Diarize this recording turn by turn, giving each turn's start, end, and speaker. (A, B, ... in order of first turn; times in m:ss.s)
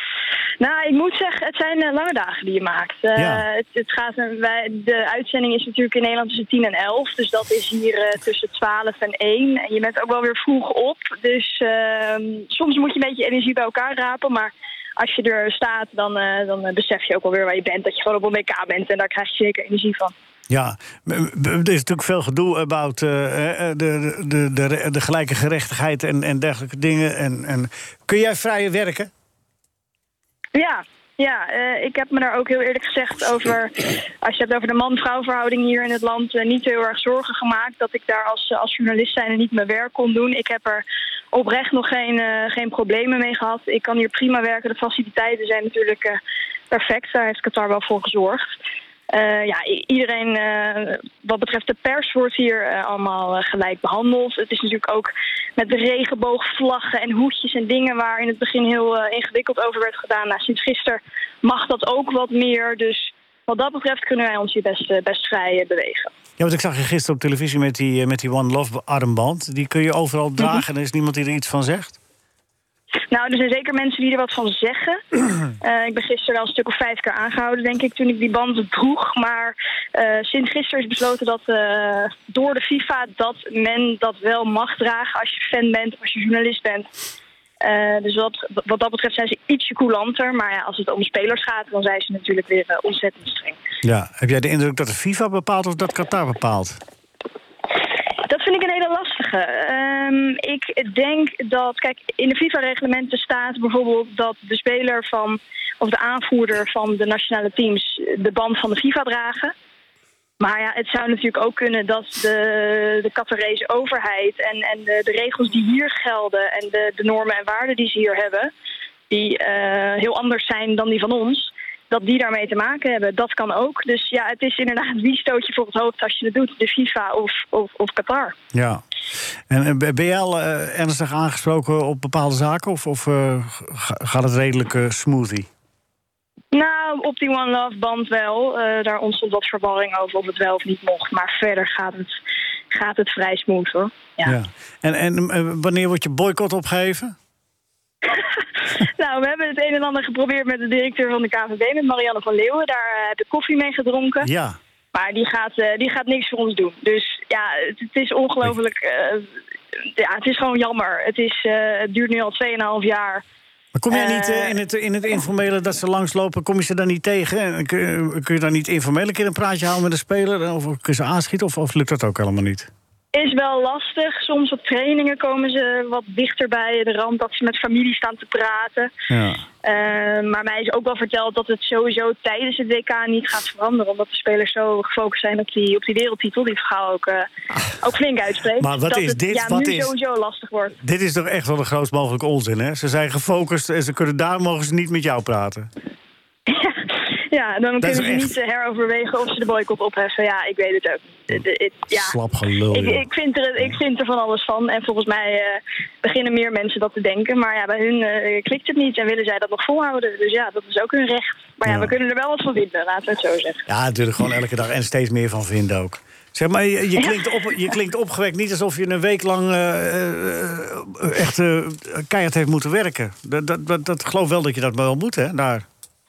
0:00.6-0:20.1 A
0:03.2-0:03.4 B
0:20.5-0:29.1 B
0:30.6-0:46.2 A
0:46.7-0:48.5 A
0:49.1-1:06.1 A
1:06.4-1:12.0 B
1:13.1-1:26.9 A
1:27.6-1:33.6 A
1:33.8-1:36.8 B
1:38.2-1:49.5 A
1:50.4-1:58.5 A
1:59.1-2:08.3 A
2:08.5-2:08.8 B
2:09.5-2:15.5 B
2:16.5-2:22.2 A
2:22.7-2:24.4 A
2:24.2-2:27.2 B
2:28.1-2:34.3 A
2:34.2-2:34.6 B
2:34.9-2:39.3 A
2:39.9-2:43.2 A
2:43.8-2:52.7 B
2:43.9-2:44.6 A
2:53.1-2:58.9 A
2:59.1-2:59.4 B
2:59.6-3:07.3 A
3:07.8-3:10.8 A
3:08.6-3:09.9 B
3:10.8-3:15.7 B
3:16.5-3:22.2 A
3:17.8-3:18.3 B
3:21.9-3:23.0 B
3:22.7-3:33.6 A
3:31.7-3:32.0 B
3:33.7-3:45.7 B
3:37.0-3:37.7 A